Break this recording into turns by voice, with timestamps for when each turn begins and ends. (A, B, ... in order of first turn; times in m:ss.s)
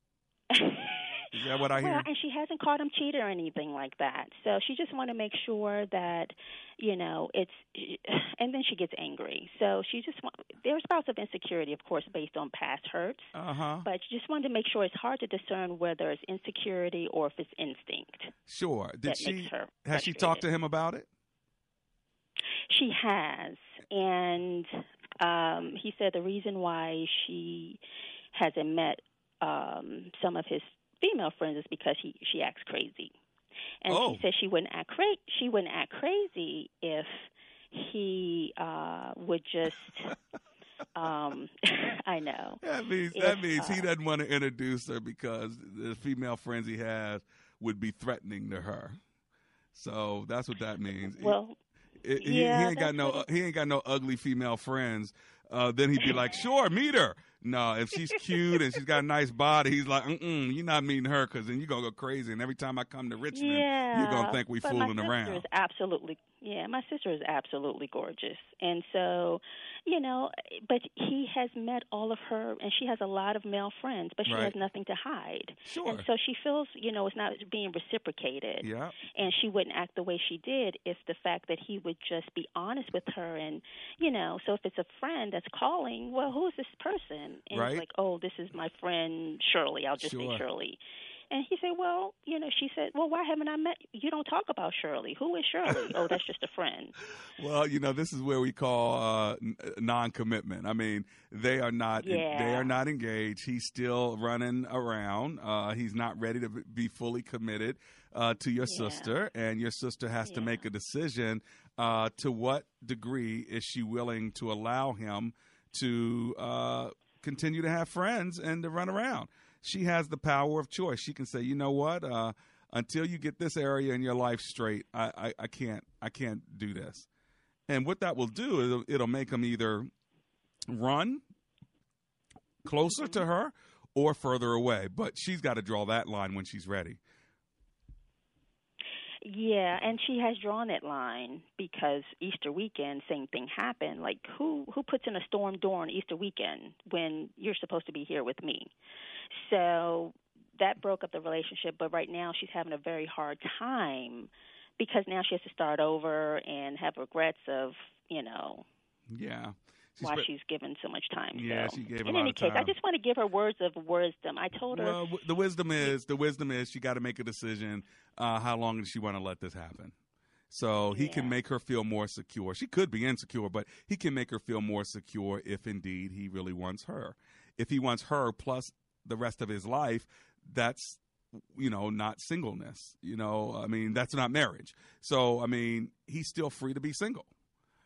0:00.5-0:01.0 A
0:01.3-0:02.1 B
0:01.7-0:13.3 A
0:13.3-0:13.9 B
0:13.8-0:18.3 A
0:18.5-0:21.1 B
0:19.0-0:20.4 A
0:22.7-0:27.8 A
0:28.3-0:33.1 A
0:33.8-0:40.1 A
0:33.9-0:34.2 B
0:41.0-0:42.6 A
0:42.6-0:49.0 B
0:43.1-0:43.9 A
0:49.7-0:51.4 B
0:51.2-0:51.6 A
0:52.0-1:05.4 B
0:52.2-0:53.2 A
1:03.3-1:30.8 A
1:14.2-1:14.6 B
1:15.6-1:16.1 B
1:18.6-1:19.0 B
1:27.5-1:27.8 B
1:30.0-1:30.4 B
1:31.3-1:36.9 A
1:35.7-1:35.9 B
1:37.4-2:07.0 B
1:42.0-1:42.7 A
1:48.6-1:49.1 A
1:50.2-1:50.6 A
2:07.7-2:09.9 B
2:10.7-2:11.2 B
2:12.6-2:17.0 B
2:12.9-2:13.2 A
2:19.2-2:28.7 A
2:29.3-2:38.6 A
2:39.1-2:40.3 B
2:40.0-2:45.0 A
2:41.3-2:42.7 B
2:44.7-2:49.9 B
2:50.5-3:01.0 B
2:50.9-2:51.4 A
3:01.5-3:07.3 B